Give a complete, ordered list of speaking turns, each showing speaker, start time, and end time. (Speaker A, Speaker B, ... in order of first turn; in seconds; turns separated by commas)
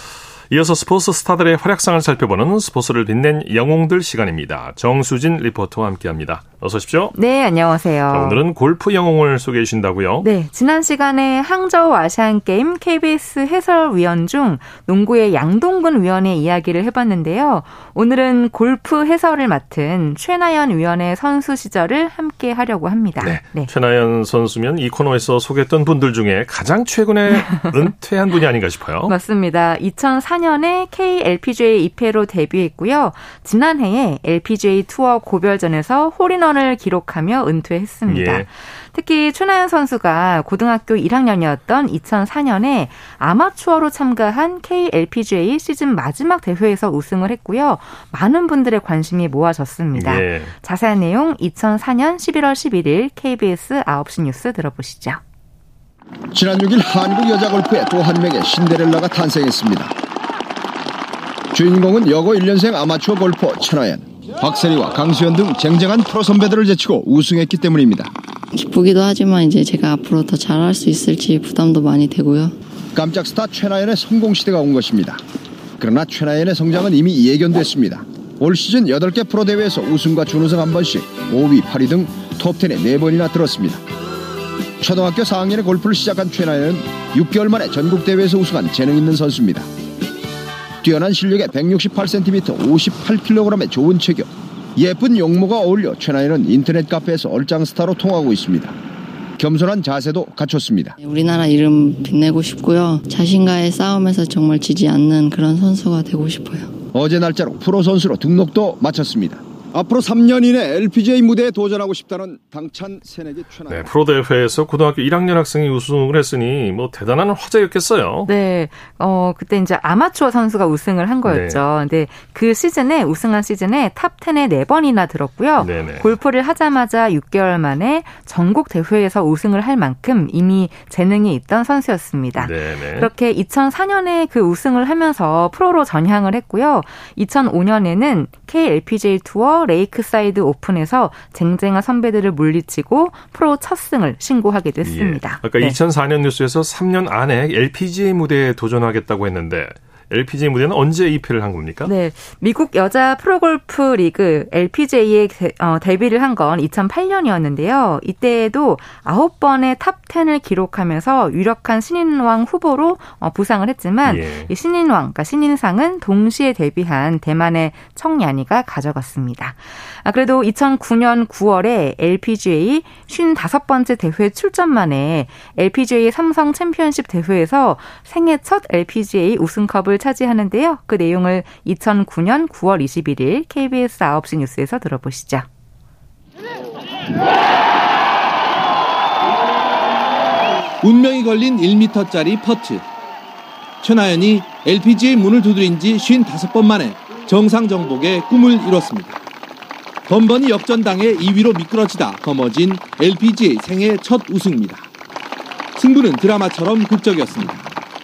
Speaker A: 0.5-7.2, Speaker B: 7.1-8.4, Speaker A: 8.1-10.3, Speaker B: 10.2-23.7, Speaker A: 23.2-29.1, Speaker B: 27.4-27.8, Speaker B: 29.1-55.2, Speaker A: 38.1-38.5, Speaker A: 50.0-50.5, Speaker C: 56.3-59.9, Speaker C: 61.5-68.1, Speaker D: 68.5-72.5, Speaker C: 72.9-75.2, Speaker C: 75.8-83.8, Speaker C: 84.8-89.7, Speaker C: 90.8-98.8, Speaker C: 99.4-101.0, Speaker D: 101.0-106.7, Speaker C: 106.9-113.8, Speaker A: 113.7-118.3, Speaker B: 118.3-145.8, Speaker A: 121.2-121.6, Speaker A: 125.6-126.1, Speaker A: 132.4-133.1, Speaker A: 144.8-151.9, Speaker B: 151.9-185.5, Speaker A: 164.0-164.5, Speaker E: 190.8-192.9, Speaker E: 193.8-199.2, Speaker E: 200.1-204.9, Speaker E: 205.8-207.6